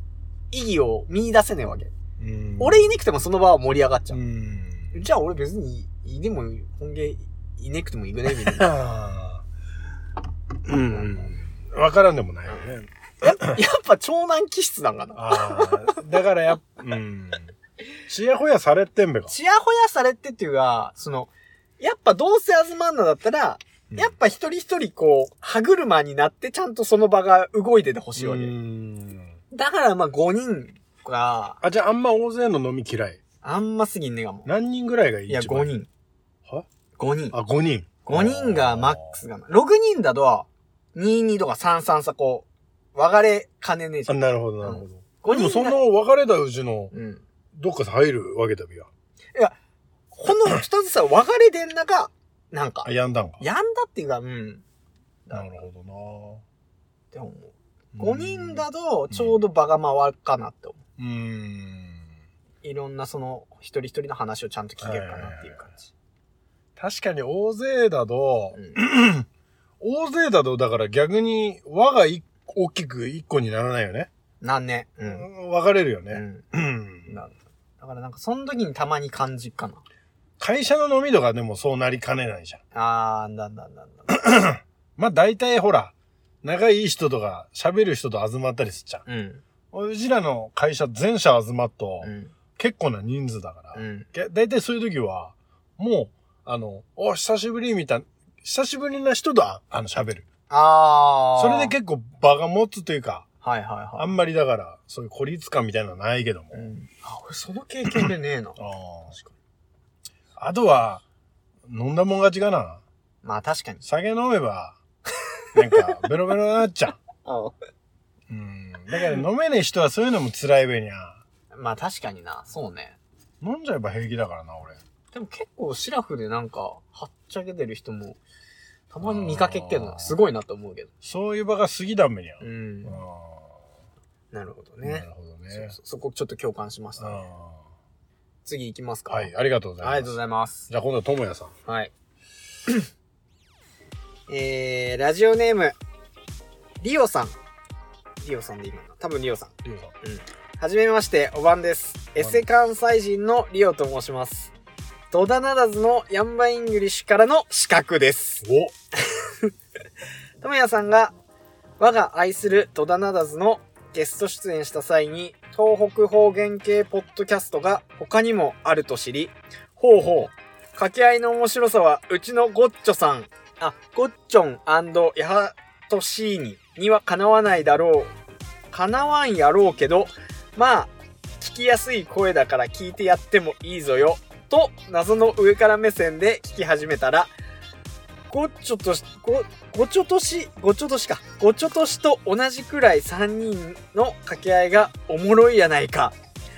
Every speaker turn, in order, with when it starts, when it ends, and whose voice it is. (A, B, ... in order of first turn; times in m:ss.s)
0:00.5-0:01.9 A
0:02.2-0:03.0 B
0:02.6-0:04.2 A
0:04.1-0:05.0 B
0:04.9-0:08.7 A
0:08.3-0:09.4 B
0:10.6-0:13.6 B
0:10.9-0:11.3 A
0:13.2-0:16.0 A
0:15.1-0:17.5 B
0:18.1-0:19.3 B
0:19.3-0:28.5 A
0:28.2-0:29.4 B
0:29.5-0:31.6 A
0:31.6-0:33.2 B
0:33.4-0:34.5 A
0:34.4-0:35.7 B
0:35.3-0:35.9 A
0:37.0-0:37.4 A
0:37.3-0:39.2 B
0:38.0-0:45.8 A
0:44.1-0:46.9 B
0:46.9-0:47.2 A
0:47.5-0:48.9 B
0:50.1-0:54.6 A
0:52.8-0:53.4 B
0:55.3-0:56.4 B
0:57.1-1:00.8 A
0:58.0-0:59.4 B
1:01.0-1:02.0 B
1:02.6-1:05.9 A
1:04.8-1:05.6 B
1:06.8-1:09.3 B
1:08.5-1:08.8 A
1:09.8-1:14.1 B
1:14.4-1:15.3 A
1:15.0-1:17.1 B
1:16.1-1:16.4 A
1:17.0-1:19.8 A
1:20.4-1:22.6 B
1:22.7-1:24.1 A
1:24.1-1:29.0 B
1:29.0-1:29.4 A
1:29.7-1:40.2 B
1:32.0-1:32.3 A
1:33.7-1:34.1 A
1:40.5-1:41.7 A
1:41.4-1:43.3 B
1:43.4-1:44.1 A
1:44.0-1:46.7 B
1:46.5-1:48.6 A
1:48.6-1:49.1 B
1:49.1-1:49.3 A
1:50.4-1:51.0 B
1:51.7-1:52.8 B
1:53.2-1:53.8 A
1:53.8-1:54.8 B
1:55.5-1:57.0 B
1:57.2-1:57.5 A
1:58.3-2:01.2 B
2:01.5-2:03.0 A
2:03.4-2:04.8 B
2:05.1-2:08.2 A
2:08.9-2:10.9 A
2:09.0-2:10.2 B
2:11.0-2:13.5 B
2:12.4-2:13.0 A
2:14.3-2:17.2 A
2:14.8-2:15.7 B
2:17.0-2:17.6 B
2:18.4-2:20.7 A
2:19.1-2:20.2 B
2:20.7-2:21.5 B
2:21.6-2:21.9 A
2:24.3-2:25.8 A
2:26.8-2:27.4 A
2:28.2-2:34.5 A
2:29.6-2:29.9 B
2:35.1-2:38.4 A
2:38.4-2:38.7 B
2:39.0-2:39.5 A
2:40.4-2:41.1 A
2:41.8-2:58.1 A
2:58.7-3:07.3 A
3:08.3-3:16.2 A